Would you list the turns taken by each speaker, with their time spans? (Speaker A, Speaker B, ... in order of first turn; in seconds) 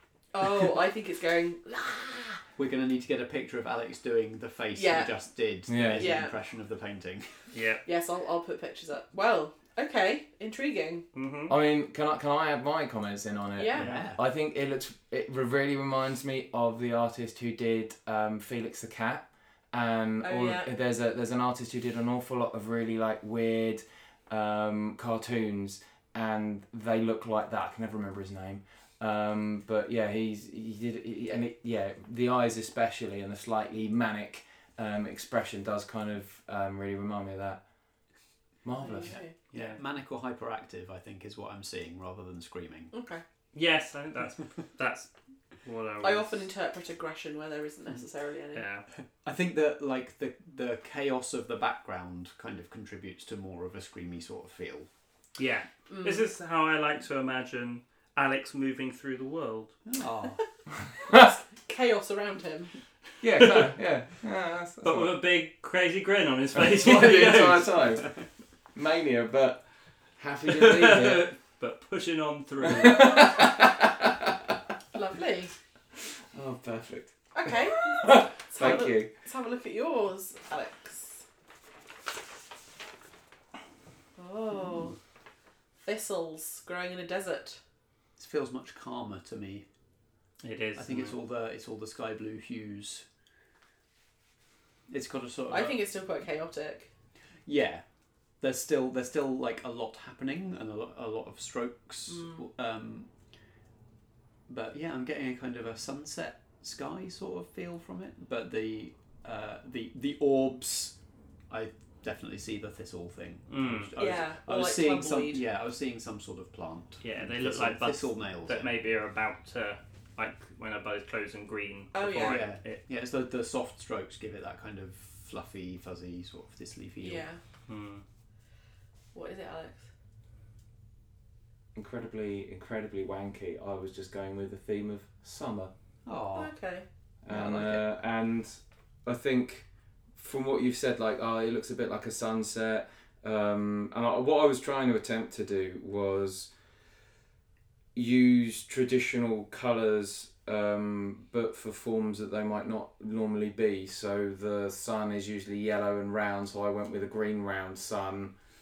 Speaker A: 0.3-2.4, 4.8-5.2, 5.9-6.3, 7.8-11.1, 13.6-14.0, 20.2-20.7, 38.9-39.3, 42.9-43.2, 46.0-48.7, 55.9-56.3, 61.2-62.7, 74.9-75.5, 77.3-81.2, 84.2-85.0, 85.8-87.6, 95.5-96.9, 102.1-102.4, 114.0-115.4, 121.9-122.5, 127.0-127.4, 129.1-129.9, 136.3-136.9
Speaker B: 2.6-7.3, 13.8-14.2, 39.3-42.9, 49.2-54.9, 59.9-60.4, 88.2-89.7, 90.8-93.0, 94.9-95.9, 97.5-97.8, 98.4-103.1, 104.5-111.0, 111.5-118.8, 122.1-127.3, 136.1-136.5
Speaker C: 5.7-6.2, 11.5-37.6, 38.6-39.2, 63.2-65.2, 66.6-68.1, 68.8-69.6, 70.2-71.3, 72.7-73.9, 76.3-77.2, 77.9-79.1, 131.8-135.7, 137.3-139.7, 140.2-146.5, 147.9-158.3
Speaker D: 7.5-7.8, 11.2-11.6, 43.5-45.1, 45.6-46.5, 48.5-48.8, 55.4-59.7, 63.4-63.7, 64.8-67.7, 70.6-73.1, 90.4-91.2, 113.5-113.9, 117.0-122.8, 127.7-128.0